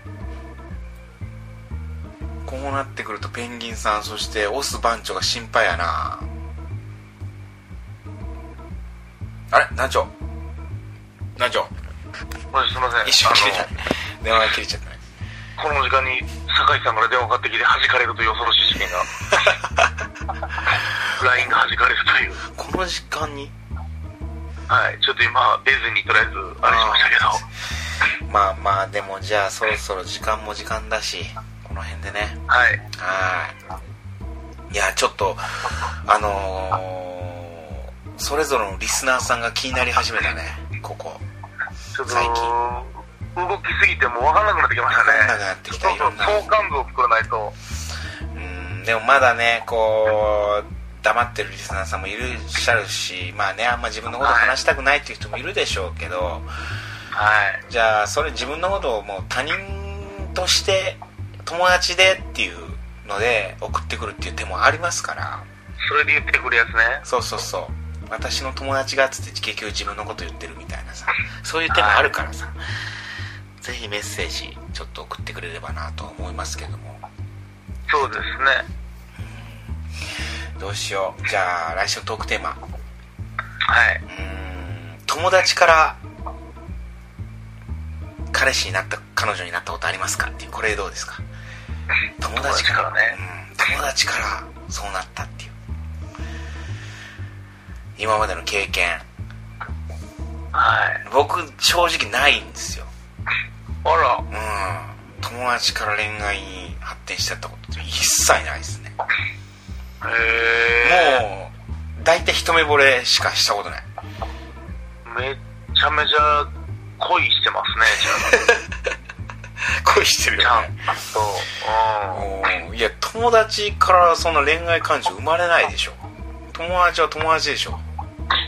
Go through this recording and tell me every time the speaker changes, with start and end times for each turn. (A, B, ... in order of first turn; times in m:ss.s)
0:02.4-0:06.3 A
0:09.5-0:10.1 A
0:11.4-0:11.7 A
0:12.5-0:13.7 B
0:13.0-0:15.0 A
0:15.6-0:19.1 B
0:19.4-0:19.8 A
0:21.2-0:22.4 B
0:22.5-0:23.5 A
0:24.7-0:27.4 B
0:26.6-0:27.4 A
0:28.2-0:33.6 A
0:32.5-0:32.8 B
0:34.7-0:41.2 A
0:41.9-0:47.6 B
0:42.1-0:42.5 A
0:44.9-0:46.5 A
0:48.3-0:56.5 A
0:54.2-0:54.6 B
0:57.1-0:57.6 B
0:57.7-1:05.5 A
1:05.8-1:07.0 B
1:07.0-1:12.6 A
1:11.7-1:12.1 B
1:13.6-1:17.0 A
1:17.9-1:18.7 B
1:19.2-1:19.8 A
1:20.6-1:22.6 A
1:23.6-1:24.0 B
1:24.0-1:26.0 A
1:28.3-1:31.2 A
1:32.2-1:35.5 A
1:32.3-1:33.2 B
1:38.0-1:39.0 A
1:40.5-1:41.0 B
1:41.0-1:42.9 A
1:43.8-1:44.2 B
1:44.3-1:48.9 A
1:50.0-1:51.2 B
1:50.8-1:53.8 A
1:55.0-1:58.6 B
1:58.0-1:58.7 A
1:59.7-2:00.8 A
2:00.4-2:02.2 B
2:02.1-2:06.0 A
2:06.5-2:07.8 A